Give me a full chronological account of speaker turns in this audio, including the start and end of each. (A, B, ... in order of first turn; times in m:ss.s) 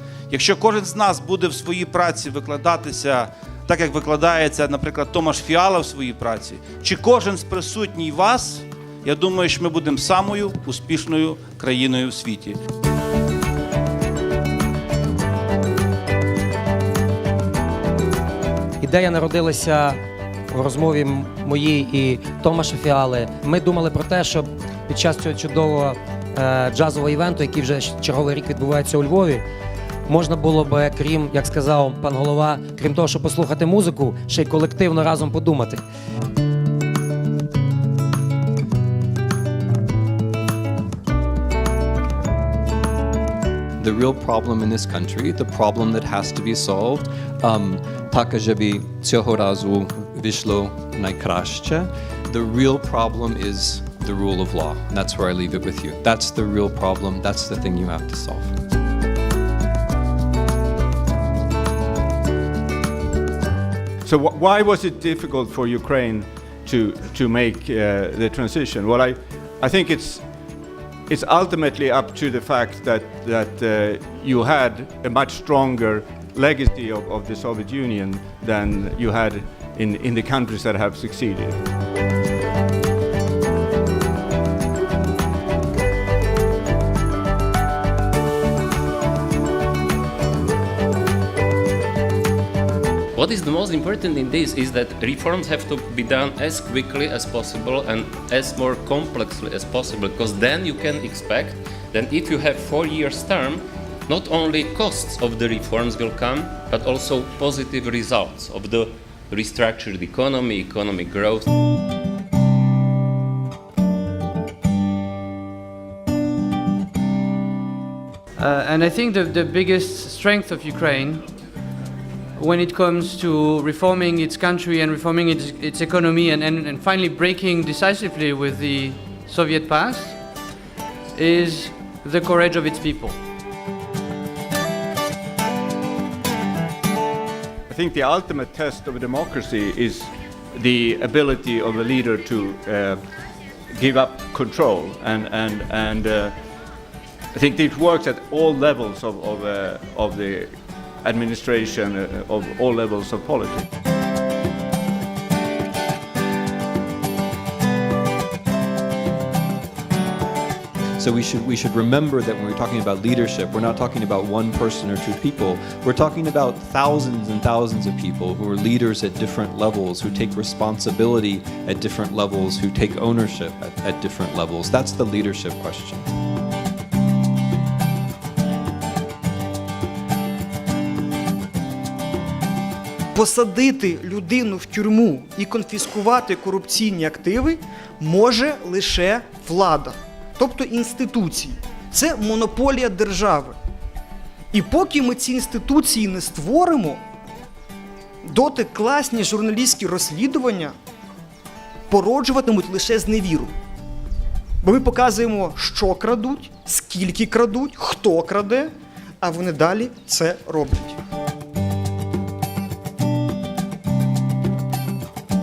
0:00.3-0:12.6 A
0:18.8-0:29.4 B
0:30.0-0:35.8 B
0:43.8-0:58.5 C
1:04.0-1:10.3 D
1:11.1-1:21.6 D
1:33.2-1:51.5 E
1:58.4-2:01.3 F
2:02.4-2:10.3 F
2:11.2-2:13.2 F
2:17.7-2:23.0 D
2:23.7-2:26.3 D
2:27.3-2:33.6 D
2:41.0-2:56.1 C
3:03.1-3:13.6 G
3:14.5-3:17.0 G
3:18.2-3:20.7 G
3:21.9-3:23.5 G
3:24.6-3:31.0 G